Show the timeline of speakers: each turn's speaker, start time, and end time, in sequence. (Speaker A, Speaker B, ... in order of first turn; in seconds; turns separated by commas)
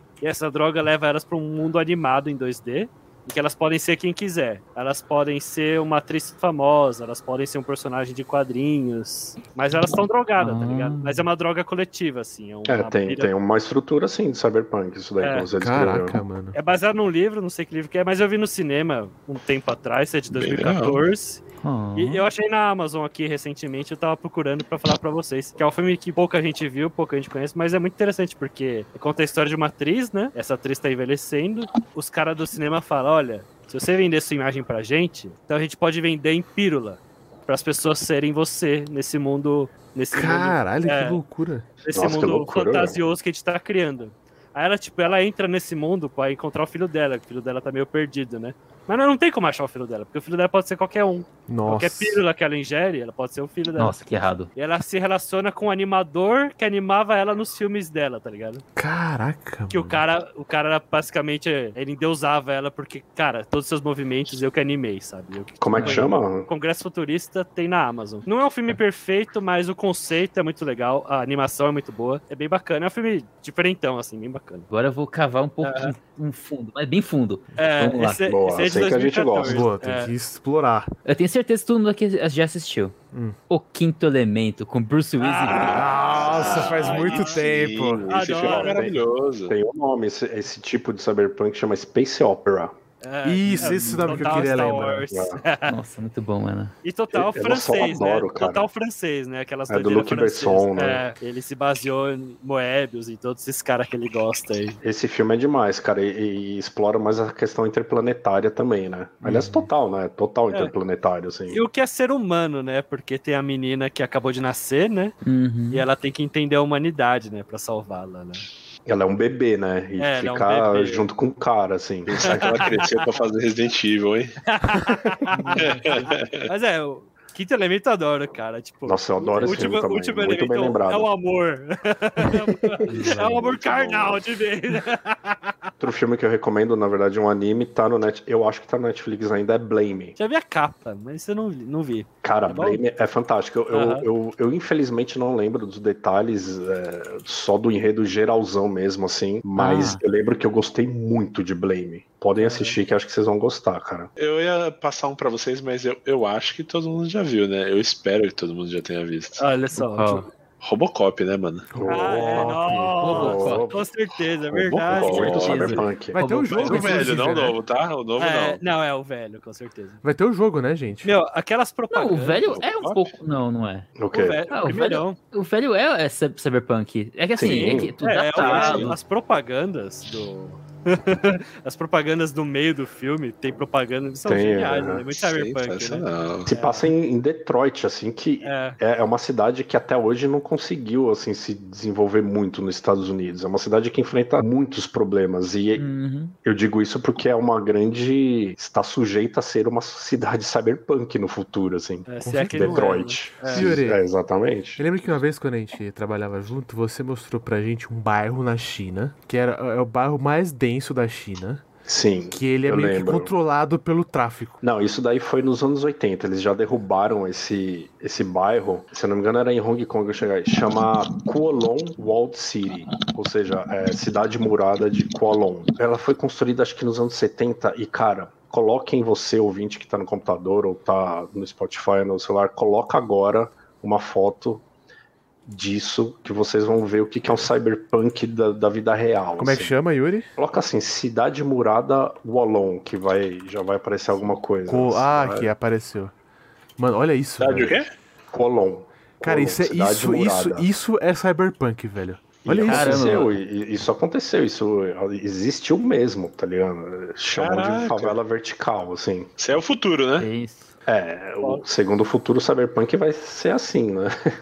Speaker A: 0.2-13.3, Speaker B: 10.4-11.3, Speaker C: 12.7-16.2, Speaker A: 15.2-15.5, Speaker D: 15.6-16.6, Speaker A: 16.5-21.4, Speaker E: 20.3-21.0, Speaker B: 21.6-22.2, Speaker A: 21.9-41.2, Speaker D: 40.1-41.7, Speaker A: 41.8-54.0, Speaker C: 41.9-43.0, Speaker D: 51.5-52.2, Speaker B: 53.8-54.5, Speaker A: 54.5-58.6, Speaker D: 58.8-60.0, Speaker A: 59.7-74.7, Speaker C: 65.6-66.5, Speaker B: 65.8-66.0, Speaker B: 74.7-78.2, Speaker A: 75.6-75.9, Speaker A: 77.6-80.1, Speaker C: 78.3-79.7, Speaker D: 79.4-80.9, Speaker B: 81.0-83.0, Speaker D: 83.1-83.4, Speaker B: 83.5-86.0, Speaker A: 85.2-87.5, Speaker D: 85.6-88.1, Speaker E: 85.8-89.5, Speaker A: 88.1-88.8, Speaker C: 88.3-92.7, Speaker A: 93.0-95.8, Speaker D: 93.2-95.1, Speaker B: 93.5-94.7, Speaker C: 95.1-95.4, Speaker B: 95.7-96.7, Speaker A: 96.8-104.8, Speaker C: 97.1-98.7, Speaker C: 99.7-101.0, Speaker C: 104.8-111.6, Speaker D: 109.2-109.7, Speaker A: 111.5-115.2, Speaker B: 115.2-115.9, Speaker A: 115.7-118.4, Speaker C: 118.8-122.7, Speaker A: 120.0-121.0, Speaker E: 122.1-124.4, Speaker A: 122.2-123.1, Speaker A: 124.5-135.7, Speaker B: 125.3-126.0, Speaker E: 125.6-126.5, Speaker C: 128.8-131.1, Speaker D: 132.9-133.4, Speaker C: 132.9-134.2, Speaker C: 135.8-140.2, Speaker A: 140.2-142.8, Speaker C: 142.2-154.1, Speaker A: 143.7-144.1, Speaker B: 149.6-150.0, Speaker A: 152.4-152.8, Speaker E: 154.2-159.4, Speaker A: 159.4-160.3, Speaker B: 159.8-160.3, Speaker E: 160.6-161.7, Speaker D: 161.7-163.3, Speaker C: 161.8-163.9, Speaker A: 161.9-165.4, Speaker B: 163.0-163.6, Speaker E: 164.5-165.8, Speaker C: 164.9-166.2, Speaker B: 165.0-167.2, Speaker D: 166.1-167.6, Speaker E: 166.5-168.6, Speaker A: 168.2-170.0, Speaker D: 170.0-171.1, Speaker A: 171.0-172.6, Speaker B: 171.9-173.9, Speaker E: 172.5-173.1, Speaker C: 174.0-174.4, Speaker A: 174.1-175.2, Speaker B: 174.5-179.0, Speaker C: 177.3-177.9, Speaker A: 177.4-186.9, Speaker E: 178.4-178.9, Speaker C: 184.2-185.0, Speaker E: 185.1-186.5, Speaker C: 186.4-195.9, Speaker A: 188.4-188.8, Speaker B: 195.8-196.3, Speaker C: 196.4-204.8, Speaker A: 202.1-203.8, Speaker D: 202.2-202.8, Speaker D: 203.5-204.0, Speaker D: 204.8-211.7, Speaker C: 211.8-213.3, Speaker D: 212.3-214.6, Speaker C: 214.6-234.6, Speaker C: 235.4-239.7, Speaker D: 239.4-240.3, Speaker C: 240.4-245.5, Speaker D: 244.7-246.1, Speaker D: 246.8-247.8, Speaker E: 247.4-247.9, Speaker C: 248.3-250.7, Speaker D: 249.2-253.2, Speaker C: 252.4-259.3, Speaker B: 252.7-253.4, Speaker E: 257.3-258.2, Speaker E: 259.4-260.3, Speaker B: 260.2-260.7, Speaker C: 260.9-264.1